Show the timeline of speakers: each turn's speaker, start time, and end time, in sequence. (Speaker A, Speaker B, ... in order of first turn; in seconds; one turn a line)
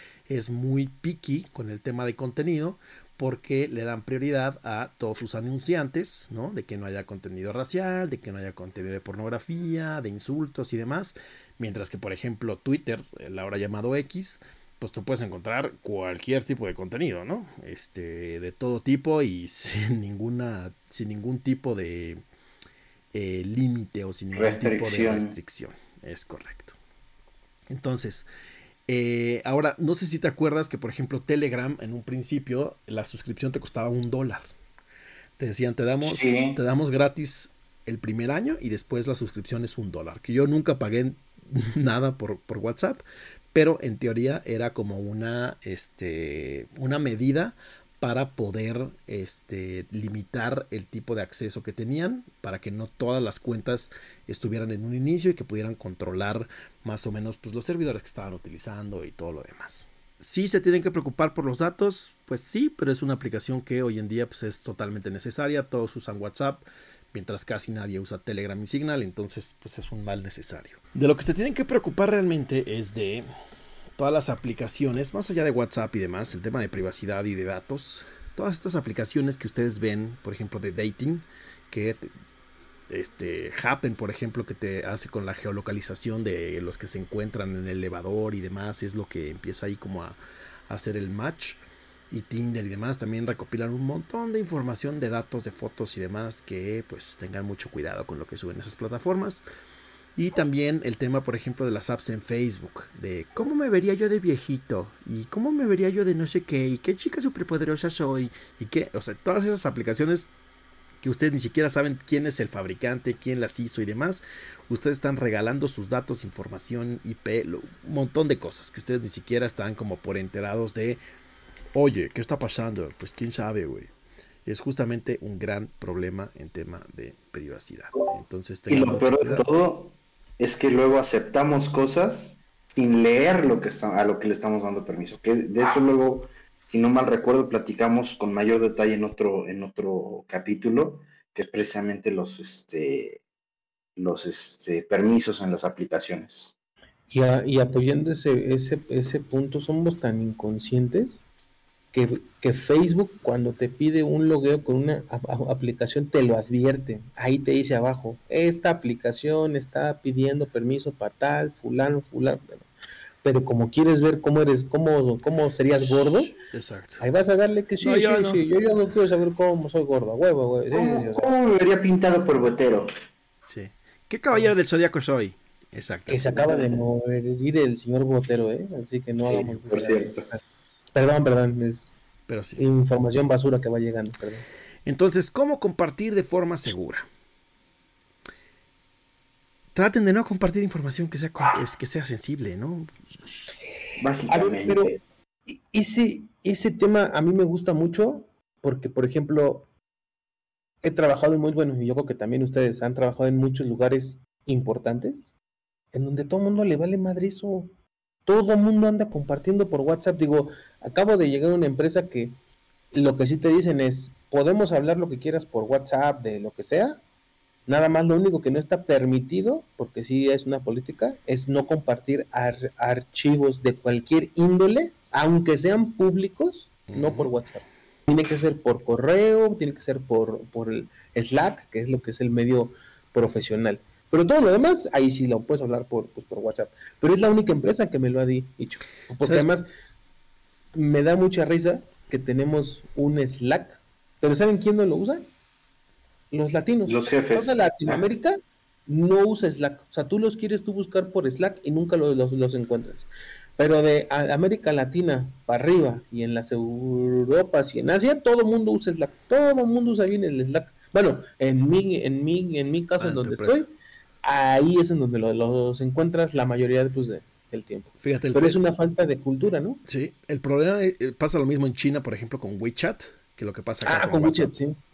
Speaker A: 0.3-22.2
Speaker A: 23.1-26.8
Speaker B: 24.3-25.3
Speaker A: 27.7-28.2
Speaker A: 28.9-34.4
Speaker A: 35.4-43.0
Speaker B: 36.0-36.6
Speaker A: 43.5-73.2
Speaker A: 74.0-82.1
Speaker A: 82.9-90.2
Speaker A: 90.7-91.6
Speaker A: 92.1-99.4
Speaker A: 100.2-110.3
Speaker A: 111.0-121.0
Speaker A: 121.7-123.9
Speaker A: 124.5-129.4
Speaker B: 128.7-143.2
Speaker B: 143.9-146.5
Speaker C: 147.1-151.2
Speaker C: 151.9-162.7
Speaker C: 163.2-166.3
Speaker A: 166.3-167.1
Speaker C: 167.0-171.3
Speaker A: 167.8-168.4
Speaker B: 170.7-172.9
Speaker A: 173.4-176.4
Speaker C: 176.1-180.4
Speaker B: 176.3-176.8
Speaker B: 179.2-180.2
Speaker C: 180.9-181.9
Speaker A: 182.3-182.7
Speaker C: 182.6-184.4
Speaker A: 184.8-187.1
Speaker A: 189.7-192.9
Speaker B: 194.0-195.0
Speaker C: 194.3-199.7
Speaker C: 200.8-205.3
Speaker C: 205.9-207.7
Speaker C: 208.2-212.3
Speaker C: 212.9-217.0
Speaker C: 217.7-239.6
Speaker A: 226.9-227.3
Speaker A: 239.2-239.5
Speaker C: 240.7-245.3
Speaker C: 246.3-263.7
Speaker B: 246.8-248.0
Speaker A: 263.0-263.6
Speaker C: 264.2-269.8
Speaker A: 268.0-268.6
Speaker A: 269.9-274.5
Speaker C: 273.8-274.8